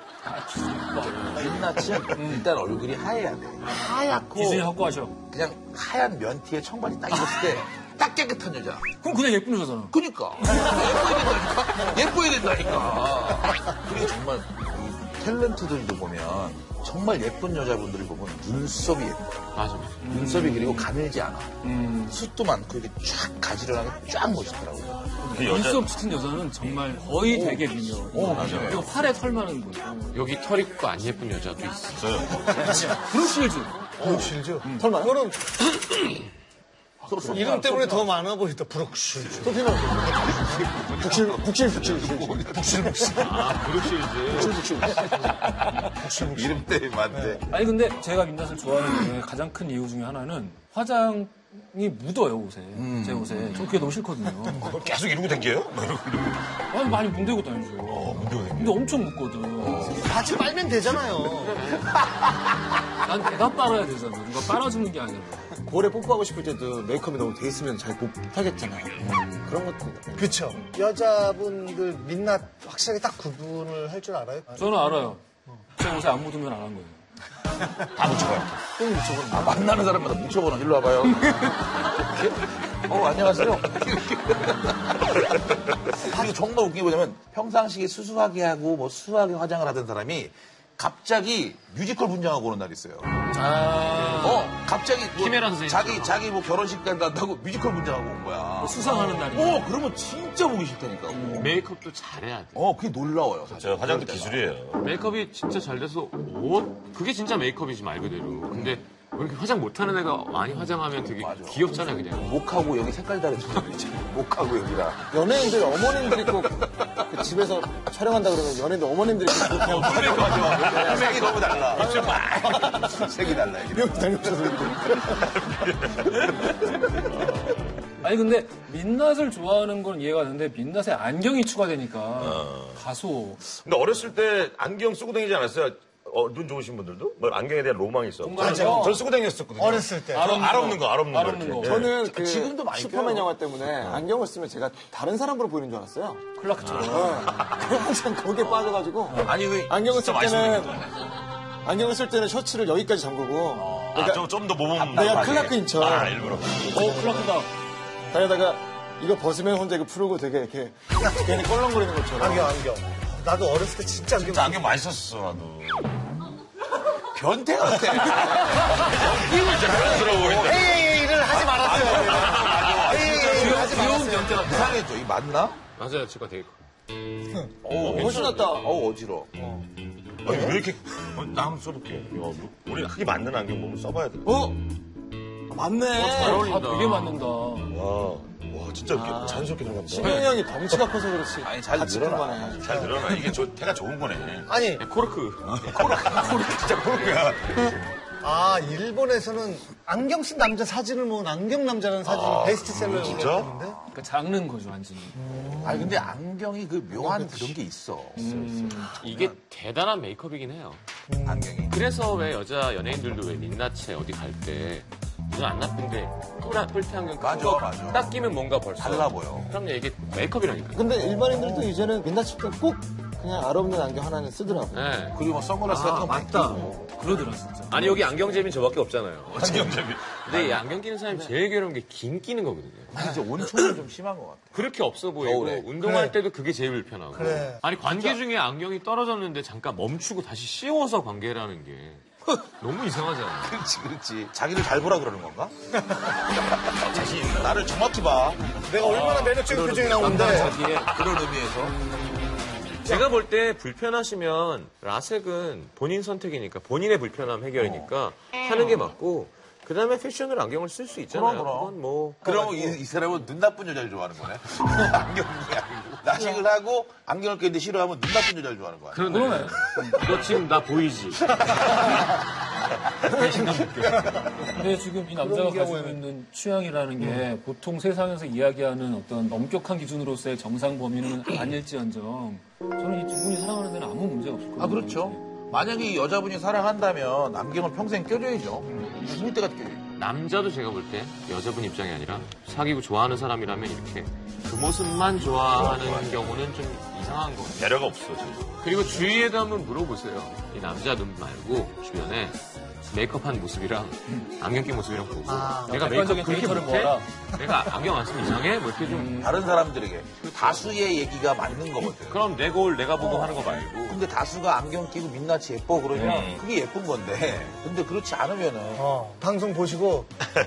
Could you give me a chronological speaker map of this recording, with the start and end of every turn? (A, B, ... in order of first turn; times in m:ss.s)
0:00.2-0:02.5 A
0:01.1-0:04.7 B
0:01.1-0:01.4 C
0:03.6-0:05.2 A
0:05.3-0:08.9 B
0:09.0-0:09.9 A
0:09.9-0:19.2 B
0:19.6-0:20.1 C
0:20.0-0:20.9 A
0:20.0-0:25.1 B
0:21.6-0:22.2 A
0:25.2-0:30.2 A
0:25.3-0:25.9 D
0:27.3-0:28.4 B
0:28.2-0:28.9 D
0:30.1-0:32.0 C
0:32.0-0:32.7 D
0:32.4-0:32.9 E
0:32.7-0:34.9 A
0:34.0-0:36.1 E
0:34.0-0:34.3 B
0:34.7-0:35.2 F
0:37.0-0:38.2 B
0:37.2-0:39.6 E
0:39.4-0:42.5 F
0:40.2-0:40.6 E
0:40.5-0:43.0 B
0:42.5-0:43.6 E
0:43.2-0:44.7 C
0:44.3-0:45.1 F
0:44.4-0:47.5 B
0:45.0-0:46.6 E
0:47.1-0:47.4 E
0:47.5-0:54.7 A
0:52.7-0:53.8 B
0:54.5-0:54.8 E
0:54.6-0:56.6 D
0:56.7-0:59.8 A
0:57.8-0:58.8 D
0:59.6-1:00.1 B
0:59.7-1:01.7 E
1:01.4-1:02.0 C
1:03.0-1:05.6 A
1:05.6-1:10.3 F
1:09.0-1:09.3 A
1:10.1-1:14.8 E
1:14.6-1:15.2 A
1:15.7-1:17.0 A
1:17.9-1:33.1 B
1:33.4-1:34.4 A
1:33.4-1:34.5 C
1:34.2-1:41.6 B
1:35.2-1:36.3 C
1:38.6-1:39.7 A
1:41.3-1:42.6 C
1:42.6-1:44.4 B
1:43.5-1:44.8 D
1:44.8-1:52.4 C
1:48.5-1:48.8 B
1:50.9-1:57.0 B
1:55.1-2:03.0 F
1:59.4-2:01.7 C
1:59.6-2:04.8 B
2:03.6-2:05.5 F
2:05.4-2:07.5 D
2:08.0-2:13.5 A
2:12.2-2:12.8 D
2:13.5-2:22.0 D
2:18.2-2:19.0 A
2:18.4-2:18.9 E
2:19.6-2:20.4 E
2:20.1-2:21.9 A
2:21.6-2:30.9 F
2:21.8-2:24.0 B
2:26.3-2:27.3 A
2:26.6-2:27.8 D
2:28.4-2:28.6 B
2:29.1-2:29.3 A
2:29.2-2:30.9 D
2:29.3-2:29.9 B
2:31.6-2:37.4 F
2:33.6-2:36.9 D
2:36.7-2:37.5 A
2:38.1-2:42.5 F
2:41.0-2:41.4 E
2:42.2-2:44.7 E
2:44.2-2:46.0 D
2:47.0-2:50.6 B
2:48.8-2:50.8 D
2:50.3-2:54.8 E
2:51.5-2:53.1 B
2:51.8-2:53.7 D
2:53.1-2:54.8 A
2:54.4-2:55.6 B
2:55.8-2:56.6 C
2:57.6-2:59.3 B
2:57.7-2:58.8 F
2:57.8-2:58.6 C
2:59.4-2:59.7 E
3:00.2-3:04.3 D
3:00.3-3:00.6 B
3:04.2-3:04.6 F
3:05.5-3:06.5 F
3:06.0-3:06.5 D
3:06.0-3:07.2 C
3:06.3-3:07.7 A
3:07.7-3:10.5 D
3:08.9-3:12.6 F
3:11.4-3:13.3 B
3:12.6-3:14.5 D
3:12.7-3:13.0 E
3:14.5-3:14.8 E
3:14.8-3:15.8 C
3:15.5-3:17.3 B
3:15.6-3:17.8 D
3:18.2-3:23.8 E
3:22.0-3:23.6 D
3:23.0-3:23.8 B
3:23.9-3:25.2 A
3:25.1-3:26.1 E
3:25.6-3:29.4 B
3:27.0-3:27.6 E
3:28.2-3:28.9 A
3:29.0-3:30.8 C
3:31.1-3:31.5 E
3:31.2-3:31.8 B
3:31.7-3:40.9 C
3:37.2-3:38.1 B
3:38.8-3:39.5 B
3:40.7-3:44.8 F
3:41.2-3:41.8 E
3:44.7-3:45.2 C
3:45.1-3:47.0 B
3:45.7-3:46.7 E
3:46.8-3:48.0 A
3:47.7-3:49.7 C
3:49.3-3:50.3 D
3:49.4-3:49.8 E
3:50.2-3:53.0 C
3:50.3-3:50.7 B
3:52.9-3:54.6 B
3:54.5-4:03.6 C
3:55.2-3:55.7 B
3:55.8-3:56.2 E
3:57.1-3:58.2 E
4:03.4-4:05.5 B
4:06.6-4:08.2 D
4:07.3-4:08.6 B
4:08.6-4:10.6 E
4:08.8-4:10.9 A
4:09.7-4:11.8 B
4:09.8-4:10.6 C
4:10.3-4:10.9 D
4:11.7-4:12.5 A
4:12.8-4:22.7 C
4:21.1-4:29.3 B
4:22.4-4:22.7 E
4:28.9-4:32.1 C
4:29.0-4:29.6 A
4:32.9-4:34.2 C
4:33.2-4:34.5 E
4:34.4-4:45.2 A
4:35.2-4:36.0 E
4:44.6-4:49.8 B
4:50.0-4:57.7 C
4:55.5-4:56.4 D
4:57.6-4:58.6 D
4:58.6-5:09.3 C
5:05.3-5:05.9 E
5:05.7-5:07.1 A
5:08.8-5:09.3 A
5:09.0-5:12.2 B
5:10.2-5:10.8 C
5:12.0-5:14.0 C
5:13.0-5:13.4 E
5:13.8-5:18.8 B
5:15.9-5:16.2 A
5:16.0-5:16.4 D
5:18.8-5:20.1 E